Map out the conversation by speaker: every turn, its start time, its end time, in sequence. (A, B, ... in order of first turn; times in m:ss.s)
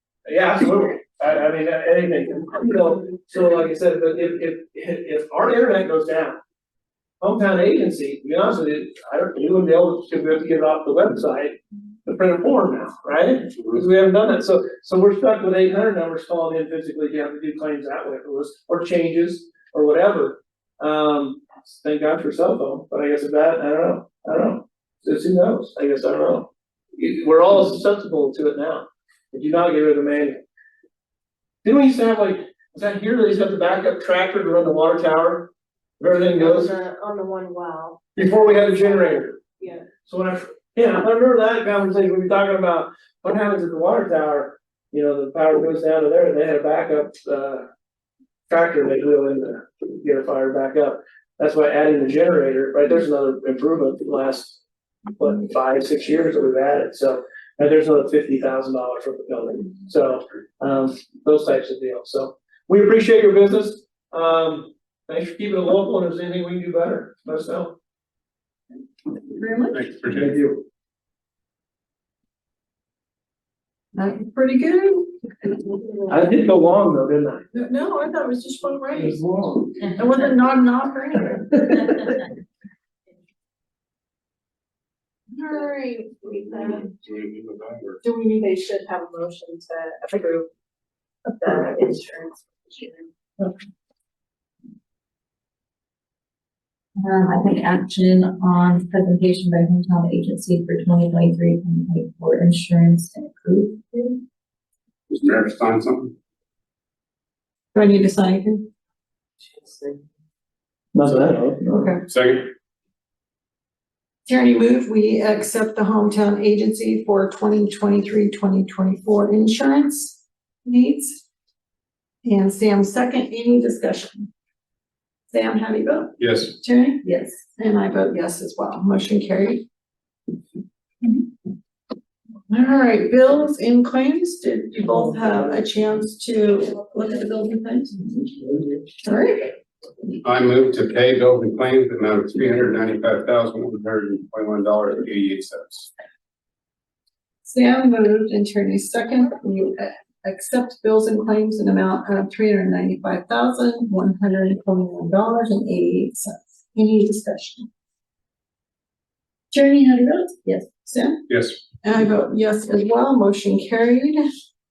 0:00.3-0:06.4 A
0:07.2-0:30.4 A
0:31.6-0:36.7 A
0:36.3-0:39.8 B
0:38.1-0:39.4 A
0:40.0-0:47.7 A
0:48.5-0:54.6 A
0:55.2-1:07.7 A
1:09.1-1:09.8 C
1:09.7-1:10.3 D
1:10.1-1:10.6 A
1:13.9-1:15.6 C
1:16.1-1:17.5 A
1:17.5-1:19.2 C
1:19.0-1:19.8 A
1:19.8-1:22.1 C
1:25.3-1:26.8 C
1:26.4-1:26.9 B
1:27.0-1:28.0 D
1:28.0-1:30.5 B
1:31.4-1:33.5 B
1:37.0-1:44.2 E
1:45.1-1:46.1 D
1:47.7-1:48.7 C
1:50.9-1:51.9 A
1:51.7-1:52.0 C
1:52.1-1:52.5 D
1:54.2-2:01.2 C
2:02.2-2:04.3 C
2:05.3-2:09.6 C
2:06.2-2:06.5 D
2:12.5-2:19.5 C
2:20.2-2:25.9 D
2:27.4-2:37.7 C
2:39.5-2:41.2 C
2:41.3-2:41.6 D
2:41.8-2:44.2 C